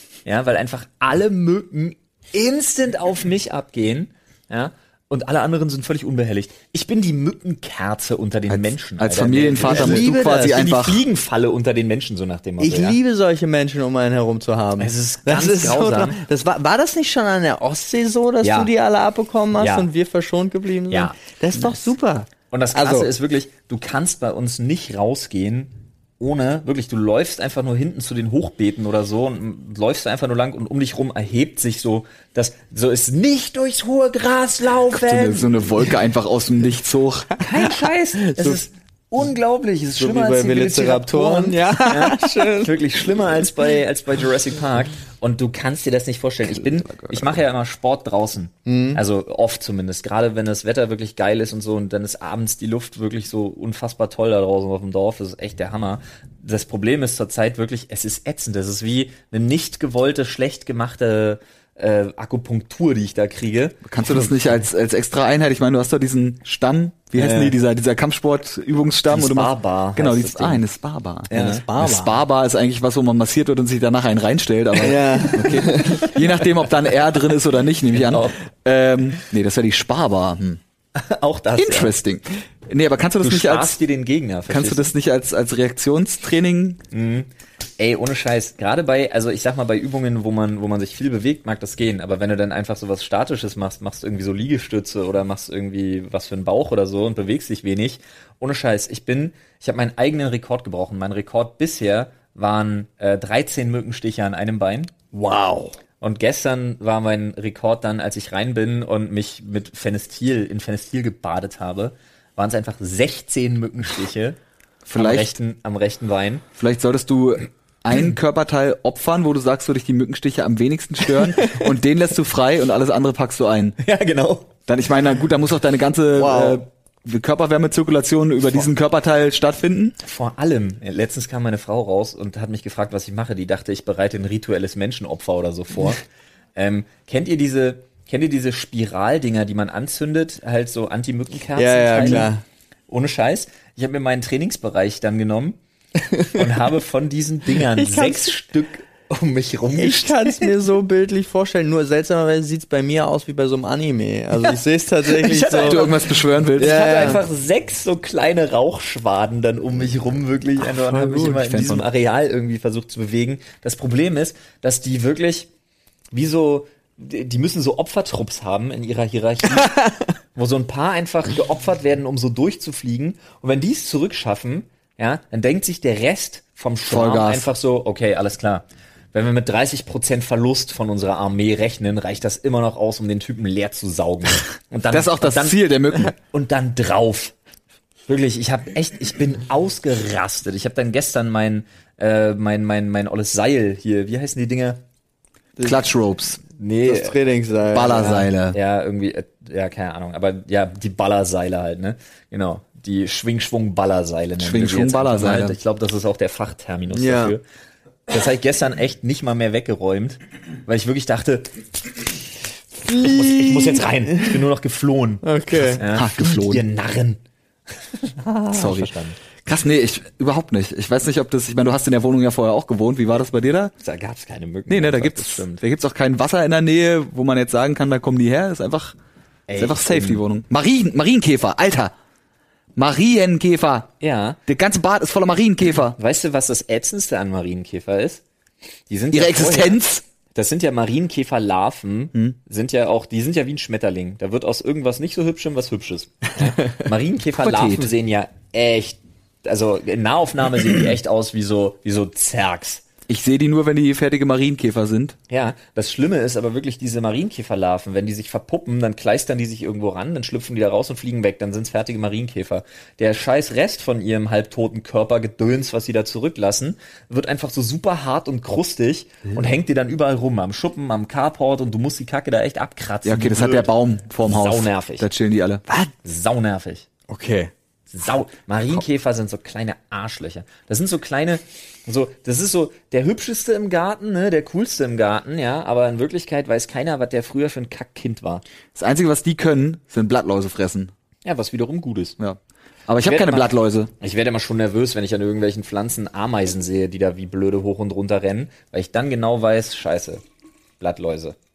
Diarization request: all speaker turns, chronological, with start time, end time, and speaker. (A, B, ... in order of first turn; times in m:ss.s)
0:00.3-0:13.0 A
0:08.5-0:11.0 B
0:09.6-0:10.7 C
0:12.6-0:23.1 C
0:14.8-0:16.2 A
0:18.4-0:18.7 A
0:19.6-0:19.9 A
0:20.9-0:21.2 A
0:22.5-0:35.5 A
0:34.9-0:37.4 B
0:37.4-1:03.9 A
0:38.2-0:38.6 C
0:40.0-0:42.7 C
0:46.5-0:47.4 B
0:48.7-0:49.0 C
1:03.8-1:20.6 B
1:07.2-1:07.6 A
1:09.1-1:10.6 A
1:11.3-1:11.6 A
1:11.3-1:12.2 C
1:14.8-1:16.1 C
1:17.9-1:18.4 A
1:21.0-1:22.0 A
1:21.6-1:23.8 B
1:23.2-1:24.9 A
1:24.5-1:26.8 B
1:26.9-1:45.0 A
1:45.1-1:45.7 C
1:46.0-1:54.4 A
1:54.9-1:55.3 B
1:55.0-1:56.4 A
1:56.6-2:03.8 B
2:03.8-2:04.5 A
2:04.7-2:10.0 B
2:06.2-2:06.6 C
2:10.0-2:16.0 A
2:16.6-2:22.3 A
2:21.6-2:22.4 C
2:22.9-2:25.6 A
2:26.0-2:26.4 C
2:26.3-2:30.5 A
2:27.6-2:28.3 C
2:29.8-2:35.9 C
2:35.1-2:36.0 A
2:35.6-2:37.1 B
2:36.6-2:45.5 A
2:36.6-2:37.2 C
2:40.9-2:41.2 C
2:41.1-2:41.8 B
2:46.1-2:49.8 A
2:49.6-2:49.9 C
2:50.4-3:07.4 A
2:56.9-2:57.5 B
3:04.9-3:06.1 B
3:08.1-3:14.8 A
3:15.6-3:16.4 B
3:16.6-3:17.2 A
3:16.8-3:18.2 C
3:17.7-3:18.6 B
3:17.9-3:27.4 A
3:24.4-3:25.6 B
3:26.9-3:27.4 C
3:28.1-3:32.1 A
3:32.8-3:35.2 A
3:32.9-3:34.4 C
3:35.2-3:35.8 C
3:35.8-3:37.2 A
3:35.8-3:36.6 B
3:38.2-3:39.2 A
3:38.5-3:38.9 B
3:39.4-3:43.7 B
3:43.8-3:45.6 A
3:44.7-3:49.0 B
3:49.5-3:50.2 A
3:49.6-3:51.9 B
3:52.8-3:53.9 B
3:54.0-3:54.4 A
3:54.5-3:56.0 B
3:56.0-3:58.2 A
3:58.9-3:59.8 A
3:59.1-4:00.0 B
4:00.4-4:12.8 A
4:07.4-4:07.9 B
4:13.1-4:15.2 B
4:15.3-4:33.7 A
4:33.0-4:35.6 B
4:34.2-4:35.1 A
4:36.0-4:36.9 A
4:37.1-4:37.5 C
4:37.9-4:48.4 A
4:48.8-4:50.9 B
4:51.2-4:52.2 A
4:52.2-4:53.9 B
4:53.0-5:00.2 A
5:00.8-5:01.4 A